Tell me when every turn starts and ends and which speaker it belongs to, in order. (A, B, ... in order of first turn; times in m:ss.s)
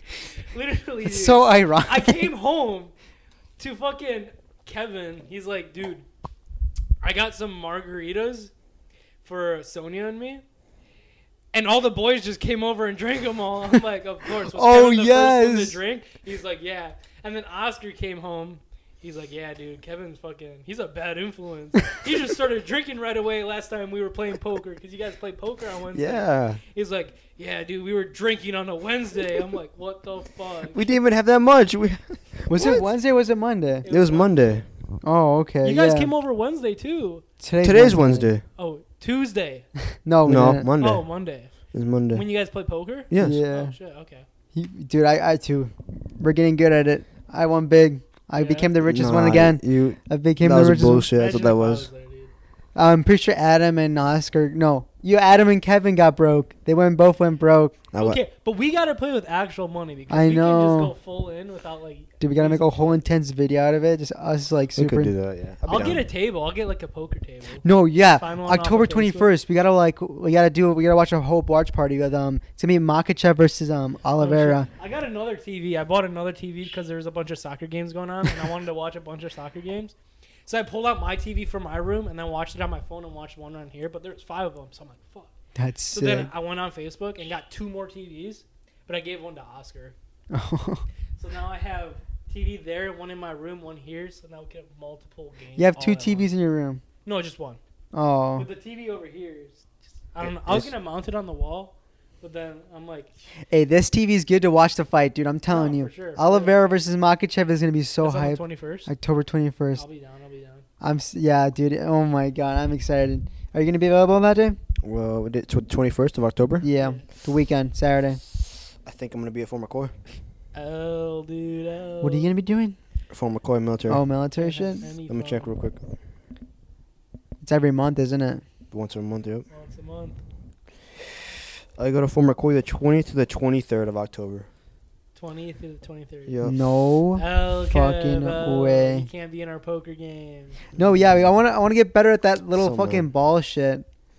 0:00.2-0:02.9 A
0:01.0-0:02.3 B
0:03.6-0:06.0 A
0:07.0-0:08.5 A
0:09.2-0:10.4 A
0:11.5-0:30.9 A
0:14.4-0:15.8 B
0:25.9-0:26.6 C
0:30.7-0:32.8 C
0:32.5-0:33.8 B
0:33.8-0:34.6 A
0:33.9-0:34.7 C
0:35.0-0:36.1 B
0:35.6-0:37.2 A
0:37.4-0:38.3 B
0:37.6-0:38.4 C
0:38.6-0:39.7 A
0:40.0-0:40.7 B
0:40.3-0:41.1 C
0:40.8-0:41.5 A
0:41.7-0:42.2 C
0:42.1-0:44.3 A
0:43.1-0:43.4 C
0:43.2-0:43.8 B
0:44.5-0:51.1 B
0:48.4-0:48.7 A
0:48.8-0:51.9 C
0:51.1-0:52.3 A
0:52.8-0:57.8 B
0:57.9-0:58.2 C
0:58.0-1:03.0 A
1:00.1-1:00.9 B
1:02.2-1:05.1 B
1:04.8-1:06.0 C
1:05.6-1:07.6 A
1:07.6-1:14.7 B
1:08.2-1:09.3 A
1:14.2-1:19.9 A
1:20.5-1:25.3 A
1:25.6-1:26.3 B
1:25.9-1:30.0 A
1:30.3-1:30.8 B
1:31.2-1:36.3 A
1:35.6-1:36.8 B
1:37.0-1:37.6 A
1:37.9-1:38.5 B
1:38.4-1:43.1 A
1:40.2-1:40.7 C
1:43.5-1:49.8 B
1:45.5-1:46.8 A
1:48.0-1:48.9 A
1:49.8-1:50.6 A
1:50.8-1:54.6 B
1:54.8-1:56.7 C
1:56.6-1:58.2 B
1:56.8-1:57.0 A
1:58.8-1:59.9 C
2:00.5-2:02.3 A
2:02.0-2:02.8 B
2:03.1-2:04.0 C
2:03.9-2:04.9 B
2:04.4-2:05.5 A
2:05.1-2:05.8 C
2:07.4-2:08.4 B
2:08.7-2:09.5 C
2:09.5-2:10.2 A
2:11.8-2:14.5 C
2:15.2-2:16.4 A
2:16.3-2:16.6 C
2:16.4-2:19.1 B
2:17.2-2:20.6 A
2:20.8-2:23.8 B
2:22.6-2:23.1 C